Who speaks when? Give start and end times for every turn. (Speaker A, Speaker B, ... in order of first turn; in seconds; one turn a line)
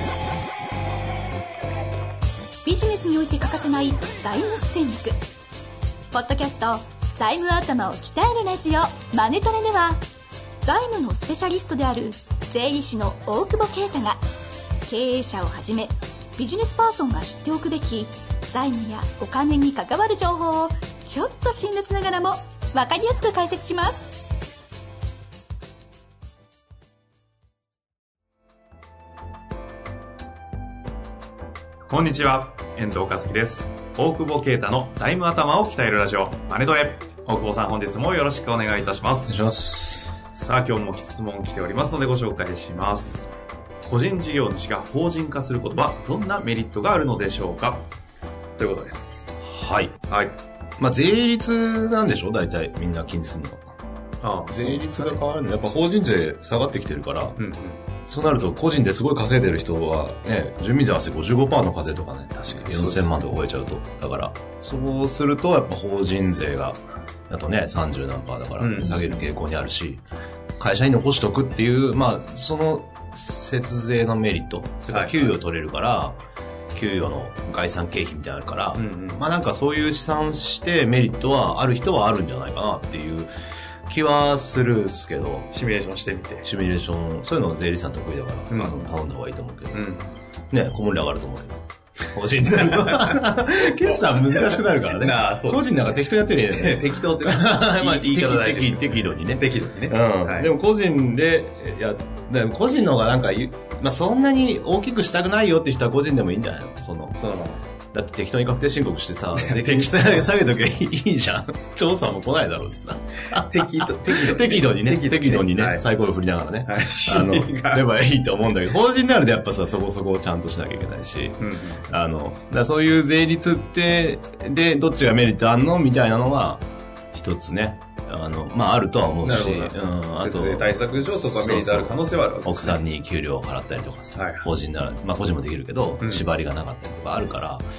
Speaker A: 2.6-5.2
Speaker A: 6.1-10.0
Speaker A: 10.6-14.2
Speaker A: 14.8-24.2
Speaker B: 31.9-39.4
Speaker C: 39.3-40.1
Speaker B: 40.3-43.3
Speaker B: 43.8-47.9
Speaker B: 48.6-49.3
Speaker C: 49.4-50.0
Speaker B: 50.1-50.4
Speaker C: 50.8-53.6
Speaker B: 54.2-55.2
Speaker C: 54.5-57.4
Speaker B: 57.4-57.8
Speaker C: 58.0-70.0
Speaker B: 62.5-63.2
Speaker B: 68.6-69.2
Speaker C: 70.6-76.2
Speaker B: 74.9-75.3
Speaker C: 76.7-85.5
Speaker B: 78.8-79.2
Speaker B: 85.5-86.5
Speaker C: 86.4-89.8
Speaker B: 88.5-88.9
Speaker B: 89.7-90.1
Speaker C: 90.5-107.2
Speaker B: 92.5-100.5
Speaker B: 107.2-107.6
Speaker C: 107.9-137.6
Speaker B: 109.3-110.3
Speaker B: 113.3-115.8
Speaker B: 116.6-117.9
Speaker B: 121.4-121.8
Speaker B: 129.2-132.8
Speaker B: 134.1-134.5
Speaker B: 136.0-136.2